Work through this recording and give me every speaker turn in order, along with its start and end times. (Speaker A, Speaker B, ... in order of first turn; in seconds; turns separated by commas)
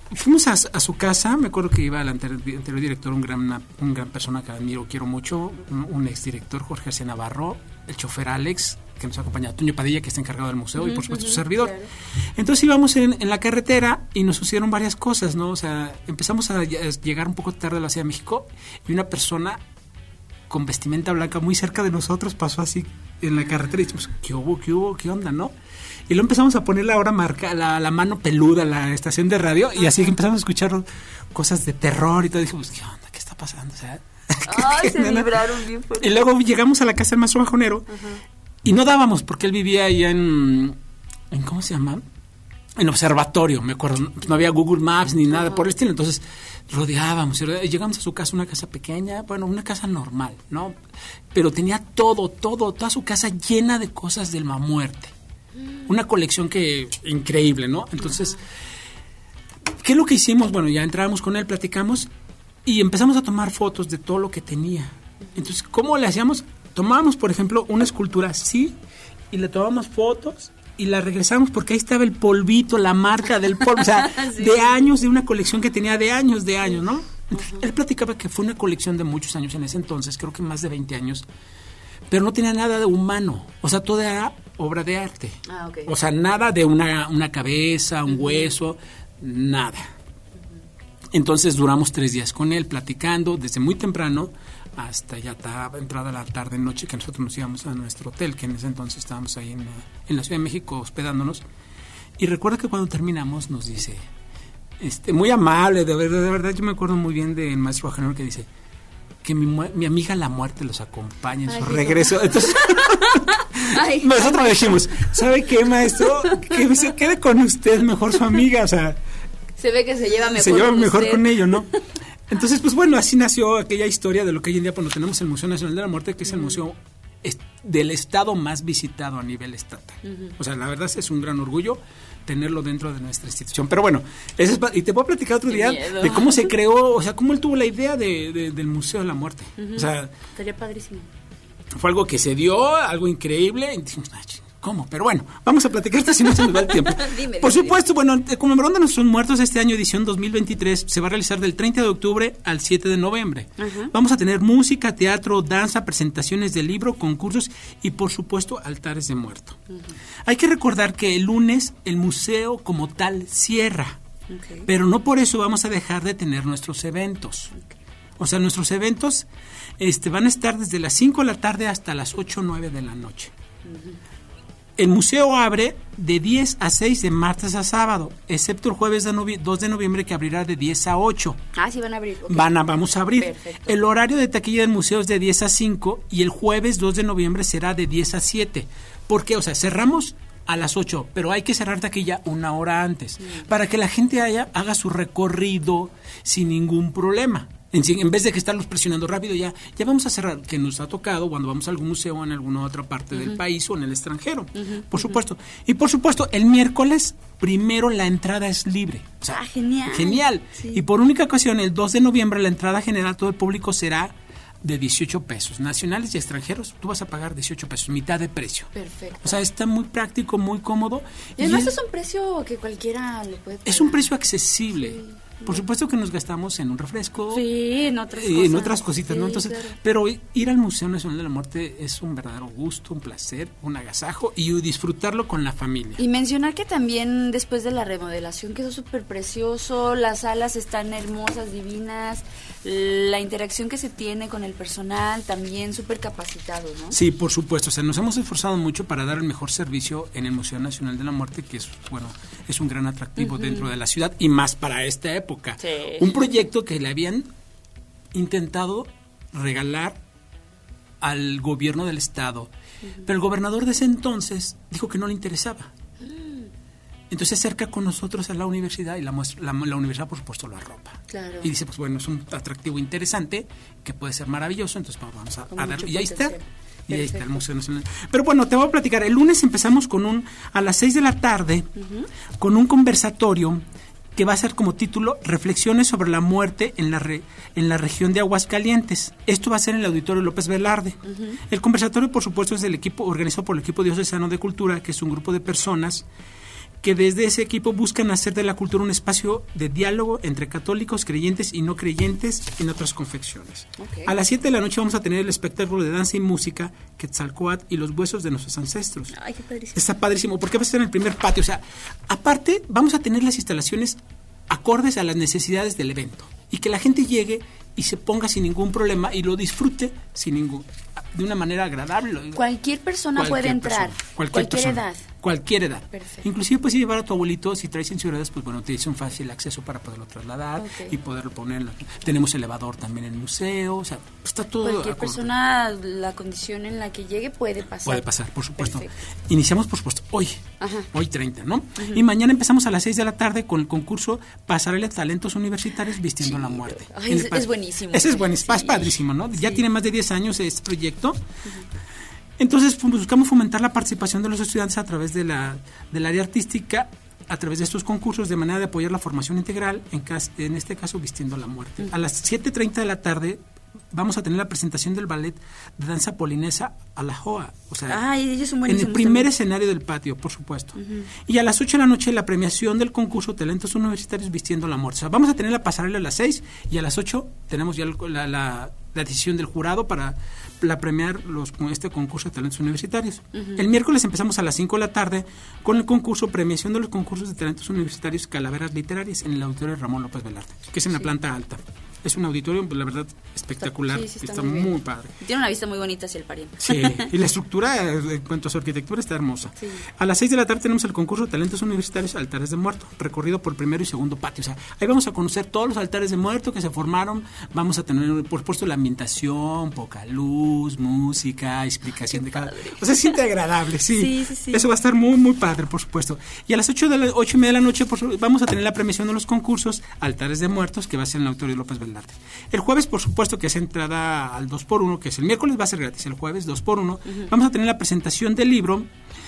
Speaker A: 0.1-11.8, Speaker B: 10.8-11.9, Speaker A: 12.4-19.6, Speaker A: 20.5-25.5, Speaker A: 26.1-35.4, Speaker B: 29.8-30.1, Speaker B: 34.5-36.2, Speaker A: 36.0-37.9, Speaker A: 38.6-40.8, Speaker A: 41.3-42.0, Speaker A: 42.8-50.8, Speaker B: 45.3-45.7, Speaker A: 51.3-55.1, Speaker B: 55.6-55.9, Speaker A: 55.9-58.4, Speaker B: 58.0-58.4, Speaker A: 59.8-62.1, Speaker A: 62.6-68.8, Speaker A: 69.3-81.2, Speaker B: 73.8-74.8, Speaker B: 77.3-77.7, Speaker A: 82.1-89.9, Speaker B: 85.5-85.9, Speaker B: 88.1-88.5, Speaker A: 91.1-101.4, Speaker A: 102.2-104.1, Speaker A: 104.8-108.5, Speaker A: 109.2-119.0, Speaker B: 111.5-115.1, Speaker B: 116.0-116.5, Speaker B: 119.6-121.7, Speaker A: 120.3-121.7, Speaker A: 122.3-140.1, Speaker B: 126.3-126.6, Speaker B: 130.0-130.3, Speaker B: 135.5-136.5, Speaker B: 139.6-141.1, Speaker A: 141.8-159.6, Speaker B: 146.3-147.8, Speaker B: 153.6-153.9, Speaker A: 160.2-164.0, Speaker B: 164.3-164.7, Speaker A: 164.7-167.5, Speaker A: 168.2-169.3, Speaker A: 169.8-173.3, Speaker B: 173.7-174.0, Speaker A: 174.8-181.4, Speaker B: 181.6-182.5, Speaker A: 182.3-218.7, Speaker B: 183.1-183.8, Speaker B: 193.2-193.5, Speaker B: 203.1-203.4, Speaker B: 204.6-205.2, Speaker B: 209.3-210.8, Speaker B: 218.7-219.4, Speaker A: 219.2-221.8, Speaker B: 221.4-224.1, Speaker A: 223.7-227.4, Speaker B: 224.7-225.6, Speaker B: 227.3-229.8, Speaker A: 228.1-236.0, Speaker B: 236.0-247.0, Speaker A: 246.9-257.3, Speaker B: 253.2-253.7, Speaker B: 255.6-256.4, Speaker A: 258.1-260.0, Speaker A: 261.0-262.5, Speaker A: 263.0-265.7, Speaker B: 266.0-266.5, Speaker A: 267.1-281.7, Speaker B: 271.1-271.5, Speaker B: 275.5-277.4, Speaker B: 281.8-282.1, Speaker A: 282.4-283.6, Speaker A: 284.2-296.1, Speaker B: 291.1-291.4, Speaker A: 296.8-309.1, Speaker B: 303.8-304.1, Speaker B: 309.1-309.9, Speaker A: 309.8-322.4, Speaker B: 322.4-325.1, Speaker A: 323.2-335.3, Speaker B: 325.9-326.3, Speaker B: 330.6-331.0, Speaker B: 334.6-338.1, Speaker A: 337.9-351.2, Speaker B: 338.6-338.9, Speaker B: 340.6-340.9, Speaker B: 341.8-342.0, Speaker B: 346.2-349.6, Speaker A: 352.4-368.0, Speaker B: 367.9-369.3, Speaker A: 368.7-395.1, Speaker B: 370.8-371.1, Speaker B: 383.4-383.6, Speaker B: 393.6-397.1, Speaker A: 396.6-428.9, Speaker B: 411.9-413.1, Speaker B: 414.0-414.6